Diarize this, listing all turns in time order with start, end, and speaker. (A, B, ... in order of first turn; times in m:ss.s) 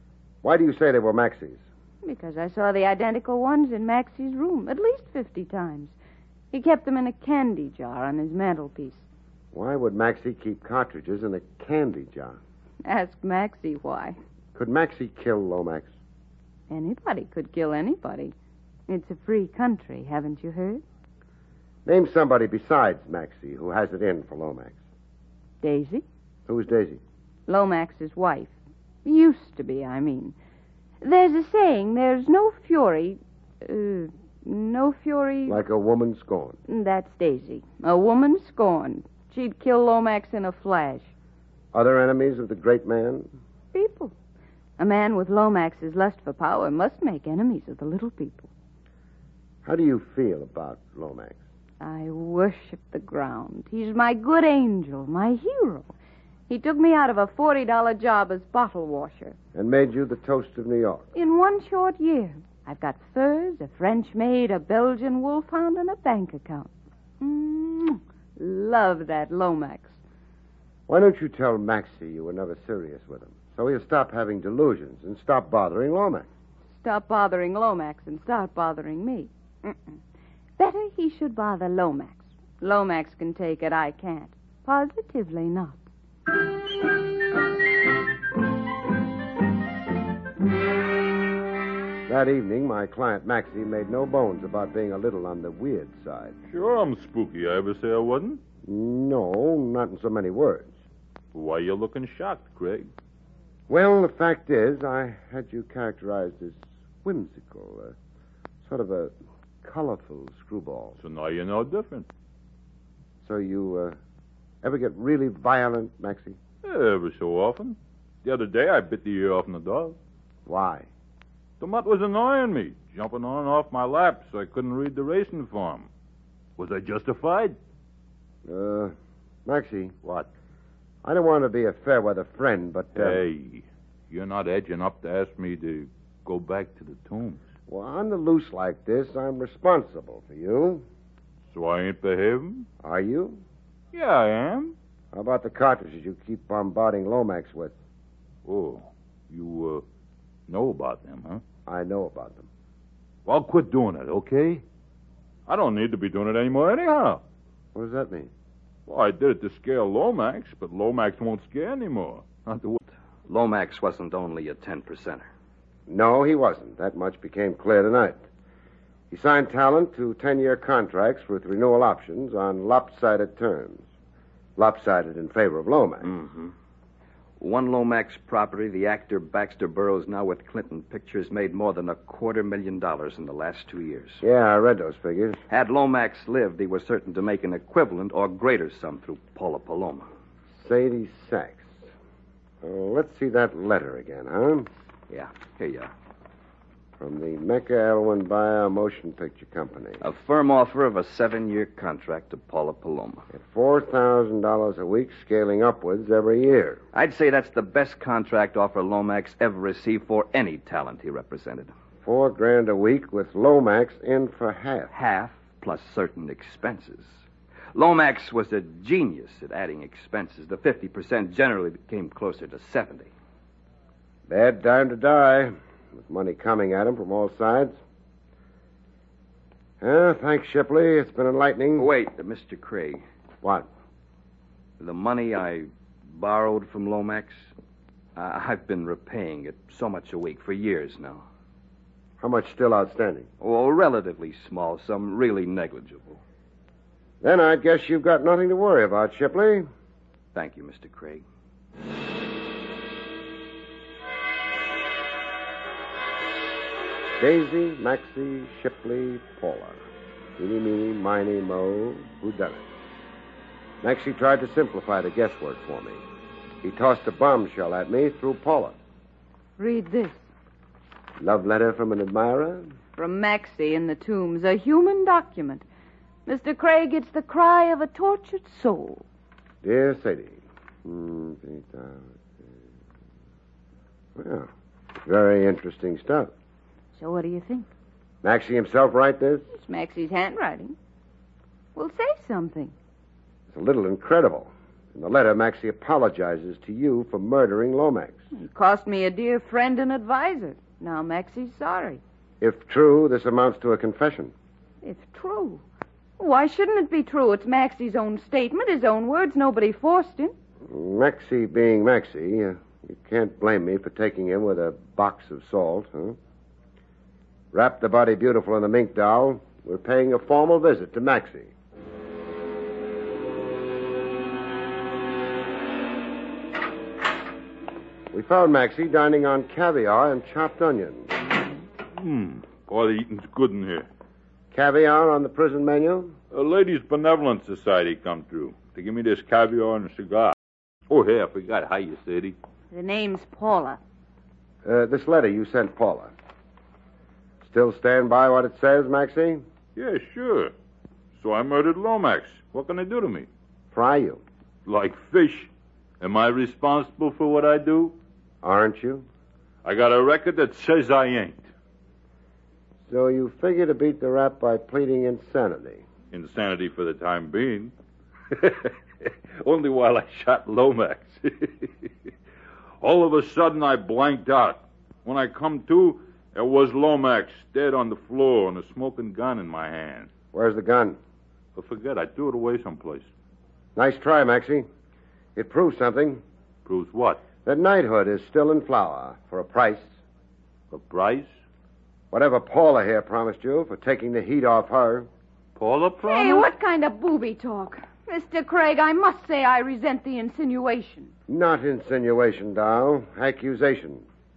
0:00.4-0:01.6 A
0:02.0-0:05.9 B
0:06.5-0:09.0 B
0:09.5-0:12.4 A
0:12.8-0:14.1 B
0:14.5-0:15.9 A
0:16.7-0:18.3 B
0:18.9-0:20.8 B
0:21.8-0:24.7 A
0:25.6-0:26.0 B
0:26.5-0:27.0 A
0:27.5-0:28.5 B
0:29.0-0:30.3 B
0:31.0-0:35.6 B
0:35.5-0:36.6 A
0:36.7-0:41.1 B
0:41.7-0:43.3 A
0:43.7-0:44.1 B
0:44.8-0:48.5 B
0:49.6-0:51.4 A
0:51.8-0:55.9 B
0:56.5-0:59.3 B
0:59.5-1:01.1 A
1:01.1-1:10.0 B
1:10.9-1:16.2 A
1:16.8-1:20.0 B
1:20.6-1:25.8 B
1:32.1-1:36.3 A
1:36.5-1:38.4 C
1:38.6-1:40.7 A
1:41.3-1:42.9 C
1:43.7-1:47.9 A
1:48.6-1:49.1 A
1:49.6-1:51.0 A
1:51.0-1:52.1 C
1:53.2-1:54.0 A
1:54.6-1:56.4 A
1:56.6-2:00.0 C
2:00.4-2:00.9 A
2:01.6-2:05.9 C
2:06.6-2:07.6 C
2:08.4-2:08.9 A
2:09.4-2:10.2 A
2:11.0-2:13.2 A
2:12.9-2:17.4 C
2:17.7-2:20.8 A
2:21.5-2:22.6 C
2:22.8-2:23.4 A
2:23.9-2:24.7 C
2:25.1-2:27.7 A
2:28.4-2:29.8 C
2:30.5-2:31.4 C
2:31.6-2:32.5 A
2:33.2-2:34.6 C
2:35.5-2:37.2 C
2:37.7-2:38.3 A
2:38.9-2:42.8 C
2:43.3-2:45.2 D
2:45.9-2:48.2 A
2:49.1-2:53.8 A
2:54.6-2:56.1 A
2:56.2-2:56.5 D
2:57.4-3:04.2 D
3:04.2-3:05.4 A
3:05.5-3:10.0 D
3:10.6-3:11.8 A
3:12.6-3:14.7 A
3:15.1-3:15.9 D
3:17.0-3:20.0 A
3:20.1-3:23.2 D
3:23.3-3:26.8 A
3:27.0-3:31.7 D
3:32.0-3:34.9 A
3:35.0-3:37.0 D
3:37.8-3:43.1 D
3:44.3-3:47.8 A
3:49.8-3:51.9 A
3:51.9-3:53.0 D
3:54.8-3:55.6 D
3:56.2-3:57.3 D
3:58.2-4:01.2 D
4:02.2-4:03.2 A
4:03.4-4:06.2 D
4:07.2-4:09.6 A
4:10.4-4:11.2 D
4:17.2-4:19.8 A
4:20.4-4:22.6 A
4:23.8-4:26.0 A
4:26.6-4:28.7 A
4:29.6-4:30.2 B
4:31.2-4:32.6 A
4:33.0-4:35.6 B
4:36.2-4:39.0 B
4:39.6-4:42.0 A
4:44.2-4:44.5 A
4:45.0-4:46.3 A
4:47.0-4:47.6 B
4:48.2-4:49.4 A
4:49.5-4:50.7 B
4:51.8-4:52.7 B
4:53.5-4:58.2 A
4:58.3-5:02.0 B
5:02.4-5:04.3 A
5:04.8-5:05.6 B
5:06.2-5:10.3 B
5:10.7-5:16.2 A
5:17.5-5:21.5 A
5:28.1-5:31.1 A
5:31.9-5:33.9 C
5:34.5-5:36.2 A
5:36.3-5:40.3 C
5:40.9-5:42.4 C
5:42.7-5:43.8 B
5:44.6-5:46.1 A
5:47.4-5:49.4 A
5:49.8-5:50.5 C
5:51.2-5:53.3 C
5:53.7-5:54.2 A
5:54.6-5:57.9 C
5:58.4-5:59.0 A
5:59.6-6:01.5 C
6:02.9-6:05.8 A
6:06.1-6:07.7 C
6:08.3-6:12.1 C
6:12.8-6:20.1 C
6:20.3-6:21.0 A
6:21.5-6:23.1 C
6:23.8-6:24.6 A
6:25.4-6:26.2 A
6:26.6-6:27.2 C
6:27.4-6:29.9 A
6:30.7-6:31.3 C
6:32.1-6:35.1 A
6:35.6-6:36.5 C
6:36.0-6:41.1 B
6:41.3-6:44.0 A